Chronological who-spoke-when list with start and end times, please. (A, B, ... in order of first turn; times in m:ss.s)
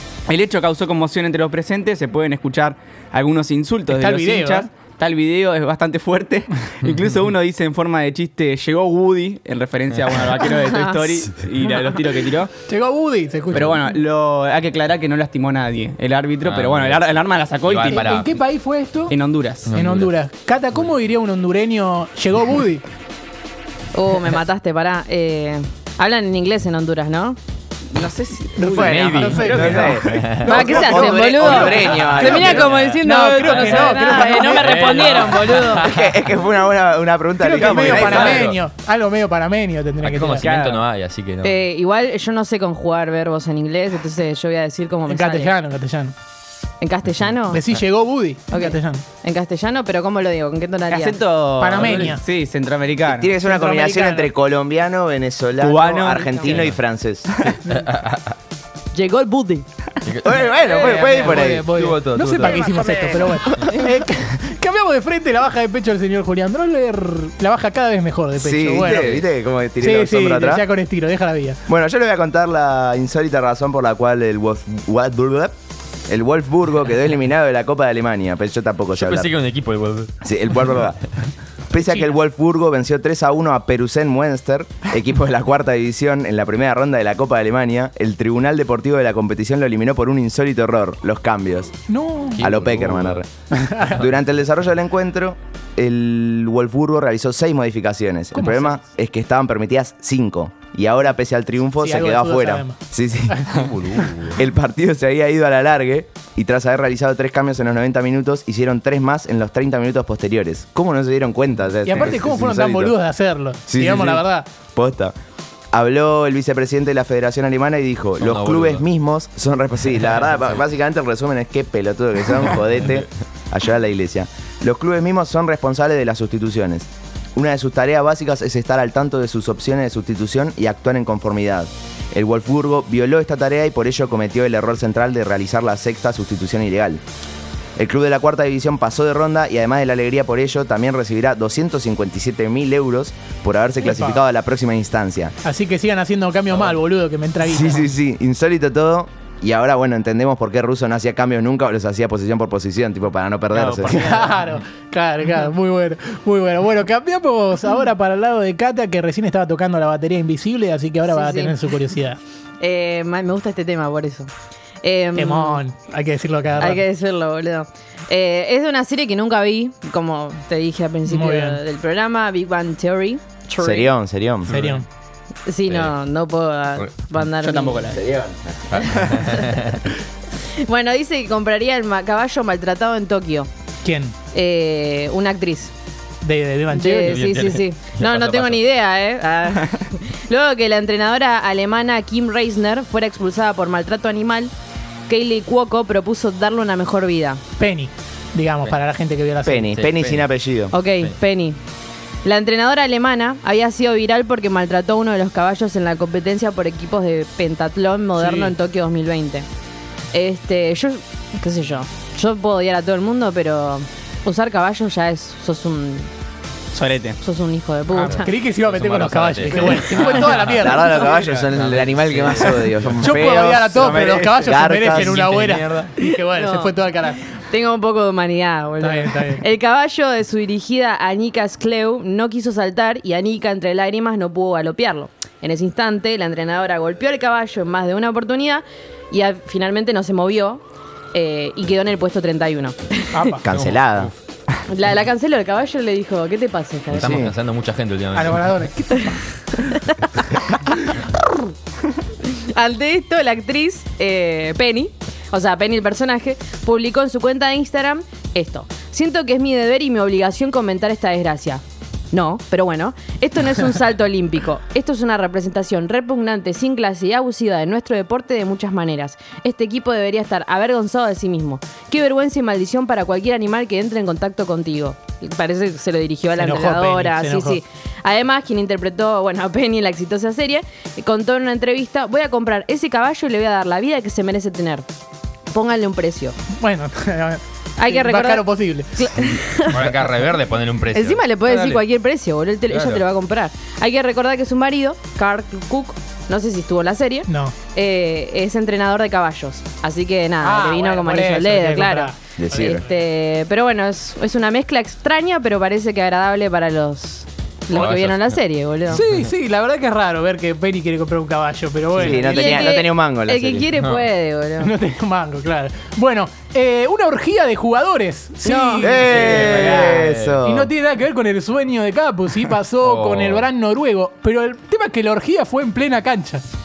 0:00.3-0:12.5 A
0:03.9-0:04.7 B
0:06.8-0:07.1 C
0:10.4-0:11.1 D
0:12.6-0:13.9 B
0:13.5-0:18.2 A
0:16.4-0:18.3 C
0:17.8-0:19.2 B
0:19.1-0:19.7 A
0:19.7-0:20.1 C
0:19.7-0:22.8 B
0:23.9-0:27.4 D
0:27.9-0:30.0 A
0:28.6-0:35.3 B
0:28.7-0:30.9 C
0:29.5-0:32.7 E
0:30.4-0:35.9 D
0:31.8-0:32.8 C
0:33.4-0:36.1 C
0:35.8-0:38.5 E
0:37.4-0:40.5 B
0:37.6-0:38.5 A
0:37.7-0:38.6 C
0:40.0-0:41.6 C
0:40.4-0:40.8 A
0:41.4-0:45.5 D
0:45.1-0:46.1 B
0:46.8-0:47.6 D
0:47.5-0:49.0 B
0:48.5-0:51.2 D
0:50.9-0:53.4 A
0:51.6-0:52.2 B
0:51.8-0:52.1 C
0:53.1-0:57.5 E
0:53.4-0:54.3 B
0:55.6-0:56.8 A
0:56.2-0:56.6 D
0:57.3-0:57.6 A
0:57.7-0:58.3 C
0:58.9-0:59.7 D
1:00.0-1:02.7 C
1:00.2-1:01.7 E
1:00.7-1:09.2 B
1:08.4-1:10.6 E
1:09.8-1:11.6 B
1:11.7-1:15.5 E
1:16.1-1:19.3 E
1:18.9-1:20.2 C
1:20.2-1:21.1 E
1:21.7-1:31.8 E
1:31.9-1:32.4 B
1:32.4-1:33.2 C
1:32.4-1:33.3 E
1:33.5-1:34.0 B
1:33.9-1:43.6 E
1:38.3-1:38.8 B
1:41.8-1:42.8 B
1:43.3-1:43.6 B
1:43.5-1:44.4 C
1:44.3-1:53.0 E
1:51.8-1:54.5 B
1:53.7-1:55.1 E
1:55.7-2:17.0 E
1:58.2-1:58.8 C
2:17.8-2:25.3 E
2:23.8-2:24.2 B
2:25.4-2:27.9 B
2:27.4-2:34.0 E
2:33.5-2:34.4 C
2:33.7-2:42.2 B
2:41.1-2:41.6 D
2:42.6-2:44.3 D
2:44.8-2:45.6 D
2:45.2-2:46.8 B
2:46.6-2:53.9 D
2:51.1-2:51.6 B
2:53.6-2:54.5 E
2:54.5-2:54.8 B
2:54.5-2:54.7 C
2:55.5-2:57.9 D
2:55.7-2:56.0 C
2:57.4-2:58.0 A
2:57.9-2:58.4 E
2:58.7-2:59.8 C
2:59.2-2:59.5 D
3:00.6-3:03.5 D
3:03.8-3:04.1 B
3:04.3-3:05.7 D
3:06.2-3:07.2 B
3:06.7-3:14.5 D
3:07.1-3:08.6 C
3:15.1-3:17.4 D
3:17.6-3:19.7 B
3:19.4-3:20.7 E
3:19.7-3:20.3 C
3:20.7-3:21.6 D
3:22.2-3:29.5 D
3:28.2-3:28.5 B
3:30.1-3:36.1 D
3:36.7-3:37.2 A
3:37.2-3:38.3 D
3:37.9-3:41.3 B
3:38.0-3:40.7 C
3:40.5-3:45.2 E
3:40.8-3:41.2 D
3:41.4-3:43.1 C
3:43.0-3:47.3 B
3:43.7-3:44.6 A
3:45.0-3:45.7 C
3:46.0-3:46.8 D
3:47.4-4:00.6 D
3:48.8-3:49.4 B
4:01.1-4:03.4 D
4:03.1-4:03.4 B
4:03.4-4:04.1 E
4:03.4-4:04.2 C
4:04.7-4:07.2 D
4:06.9-4:08.5 C
4:07.0-4:07.3 E
4:08.1-4:09.4 B
4:09.1-4:11.5 D
4:12.0-4:44.9 D
4:36.4-4:37.6 B
4:45.5-4:46.4 D
4:46.5-4:49.4 B
4:47.8-4:49.9 D
4:49.7-4:51.8 C
4:50.9-5:09.0 D
4:52.7-4:53.0 C
4:57.3-4:57.6 B
5:00.4-5:02.8 B
5:02.4-5:02.8 E
5:07.7-5:08.4 C
5:08.9-5:12.7 B
5:11.9-5:13.7 E
5:12.2-5:14.7 D
5:13.8-5:14.0 C
5:14.6-5:26.4 B
5:18.4-5:18.9 D
5:18.8-5:20.7 E
5:19.0-5:20.4 C
5:22.8-5:23.5 C